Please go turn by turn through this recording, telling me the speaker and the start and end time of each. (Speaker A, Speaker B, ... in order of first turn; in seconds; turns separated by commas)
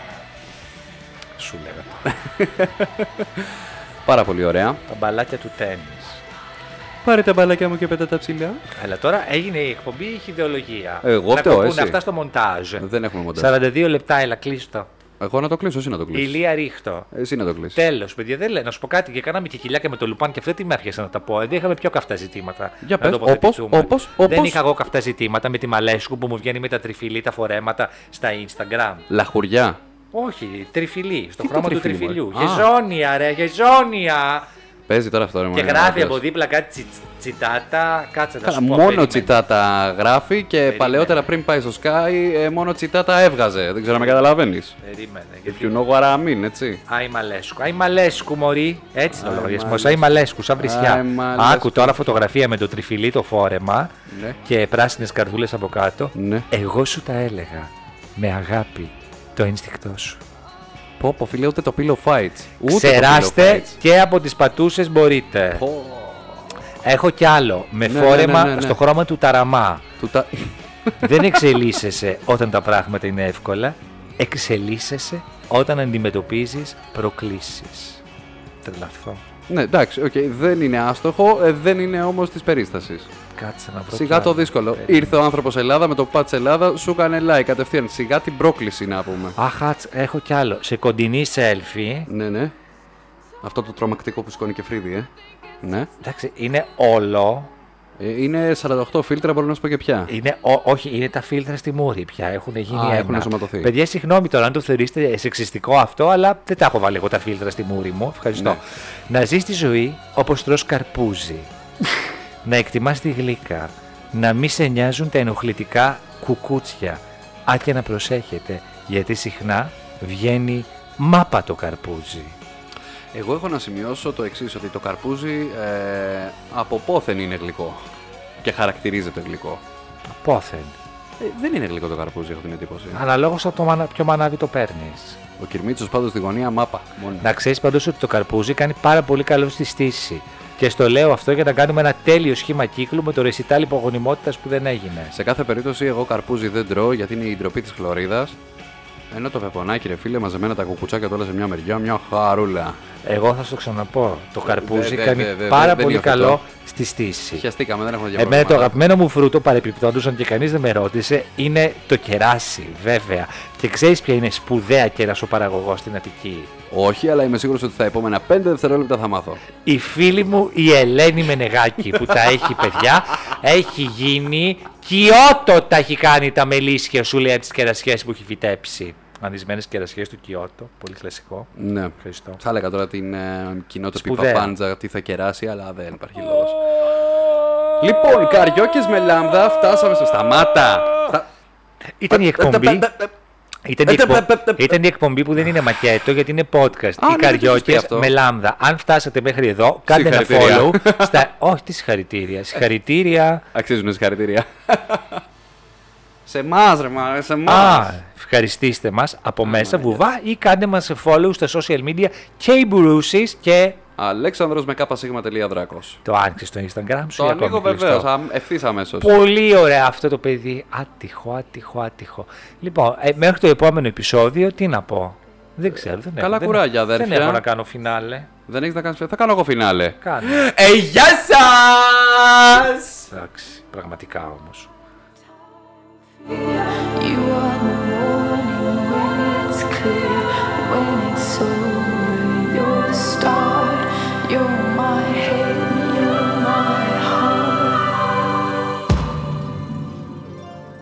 Speaker A: 1.4-2.1, Speaker B: 2.1-4.8, Speaker A: 4.9-6.2, Speaker B: 7.0-8.6, Speaker A: 8.7-14.9, Speaker B: 11.0-12.0, Speaker B: 12.8-13.5, Speaker B: 15.2-16.4, Speaker A: 16.1-17.1, Speaker B: 17.1-17.8, Speaker A: 17.7-29.1, Speaker B: 22.8-24.6, Speaker B: 29.1-29.8, Speaker A: 30.1-34.5, Speaker B: 31.4-32.7, Speaker B: 34.9-36.2, Speaker A: 35.5-39.4, Speaker B: 38.4-44.8, Speaker A: 40.6-41.3, Speaker A: 43.9-44.2, Speaker A: 44.8-45.8, Speaker B: 45.5-46.8, Speaker A: 46.9-53.9, Speaker B: 49.1-52.0, Speaker B: 54.1-54.4, Speaker A: 54.4-60.2, Speaker B: 56.1-56.5, Speaker B: 61.0-63.8, Speaker A: 62.6-65.6, Speaker B: 65.5-66.5, Speaker A: 66.8-69.9, Speaker B: 67.8-68.8, Speaker B: 70.0-71.5, Speaker A: 71.0-78.0, Speaker A: 78.6-79.2, Speaker B: 79.5-83.1, Speaker A: 83.3-85.2, Speaker B: 83.9-89.4, Speaker A: 89.4-92.1, Speaker B: 92.1-92.5, Speaker B: 93.4-95.1, Speaker B: 95.6-95.9, Speaker A: 96.0-97.5, Speaker B: 98.0-100.1, Speaker A: 100.1-111.5, Speaker B: 102.7-103.7, Speaker B: 108.3-108.6, Speaker A: 112.4-122.4, Speaker B: 123.1-127.8, Speaker B: 128.4-129.6, Speaker A: 130.1-130.8, Speaker B: 131.2-133.0, Speaker A: 132.9-135.2, Speaker B: 135.4-137.3, Speaker A: 137.2-145.1, Speaker B: 145.1-148.4, Speaker B: 149.1-152.8, Speaker A: 153.0-157.5, Speaker B: 154.4-156.4, Speaker B: 157.3-158.8, Speaker A: 158.1-166.5, Speaker B: 166.7-169.4, Speaker A: 169.6-182.4, Speaker B: 181.6-186.9, Speaker A: 183.9-184.5, Speaker B: 187.8-191.3, Speaker A: 192.0-192.9, Speaker B: 192.1-193.1, Speaker A: 193.7-203.4, Speaker B: 193.8-194.8, Speaker B: 197.0-198.1, Speaker B: 199.9-201.3, Speaker B: 203.5-205.2, Speaker B: 206.2-208.0, Speaker A: 207.4-213.8, Speaker B: 209.4-210.1, Speaker B: 214.0-216.0, Speaker A: 216.0-218.1, Speaker B: 217.2-219.1, Speaker A: 219.0-228.3, Speaker B: 226.2-227.4, Speaker B: 228.5-233.1, Speaker A: 230.0-230.5, Speaker A: 233.1-234.7, Speaker C: 236.2-248.1